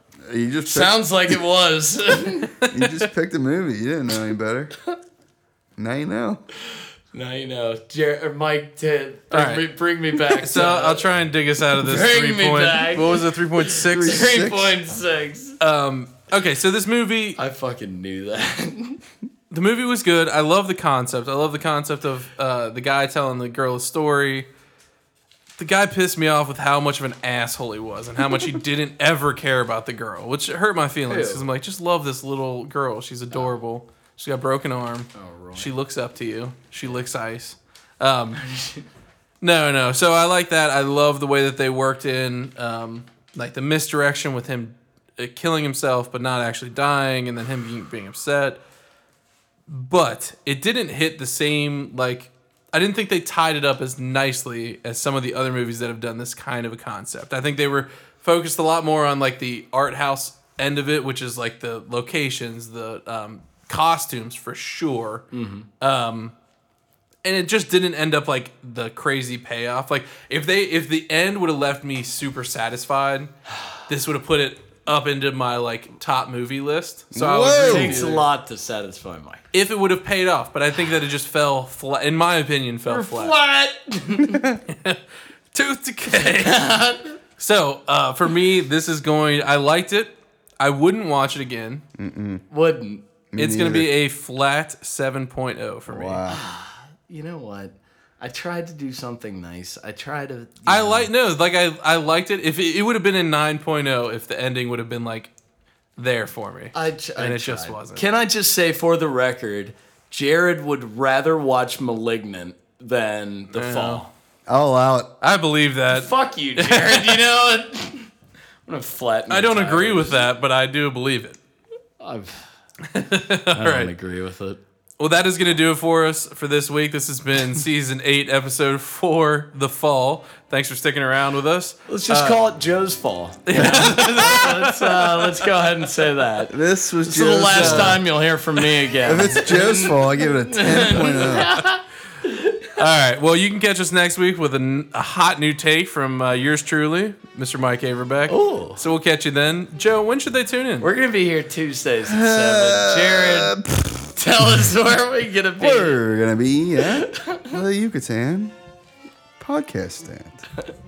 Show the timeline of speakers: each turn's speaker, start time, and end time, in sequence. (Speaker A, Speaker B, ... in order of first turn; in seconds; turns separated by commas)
Speaker A: 0.2-1.3, Speaker B: 0.7-2.6, Speaker C: 2.6-3.1, Speaker A: 2.7-4.8, Speaker A: 5.8-6.4, Speaker B: 7.1-11.1, Speaker C: 9.3-9.7, Speaker C: 10.3-14.3, Speaker B: 11.8-15.6, Speaker A: 13.8-14.8, Speaker C: 15.6-17.4, Speaker B: 17.4-19.0, Speaker C: 19.5-24.5, Speaker C: 25.6-38.5, Speaker B: 31.1-31.4, Speaker B: 35.1-35.7, Speaker B: 38.4-38.9, Speaker C: 39.4-48.6, Speaker C: 49.7-65.3, Speaker B: 65.3-65.7, Speaker C: 65.8-66.3, Speaker C: 67.2-73.3, Speaker C: 73.9-78.2, Speaker A: 77.1-78.2, Speaker B: 77.6-79.4, Speaker C: 79.5-83.3, Speaker B: 82.9-84.4, Speaker A: 84.3-84.6, Speaker C: 84.7-85.0, Speaker C: 85.5-86.6, Speaker B: 86.1-87.2, Speaker C: 87.4-91.8, Speaker A: 92.0-92.4, Speaker B: 92.5-93.0, Speaker A: 93.3-93.9, Speaker C: 93.4-96.2, Speaker A: 95.9-96.5, Speaker B: 96.3-101.1, Speaker C: 100.7-105.3, Speaker C: 106.0-108.0, Speaker B: 106.7-114.1, Speaker C: 113.5-114.0, Speaker A: 114.5-115.1, Speaker C: 115.2-117.2, Speaker B: 115.9-118.1, Speaker B: 118.7-120.3, Speaker C: 119.3-121.4, Speaker B: 122.0-122.5, Speaker C: 122.9-123.9, Speaker B: 123.5-124.6, Speaker C: 125.0-132.4, Speaker B: 131.9-142.7, Speaker C: 133.5-135.5, Speaker A: 136.5-138.0, Speaker C: 137.5-138.0, Speaker A: 139.0-141.6, Speaker C: 142.8-150.9, Speaker B: 148.3-148.8, Speaker B: 150.8-153.6, Speaker A: 152.1-154.1, Speaker B: 154.1-156.0, Speaker A: 155.6-158.6, Speaker B: 156.8-157.6, Speaker A: 159.4-160.4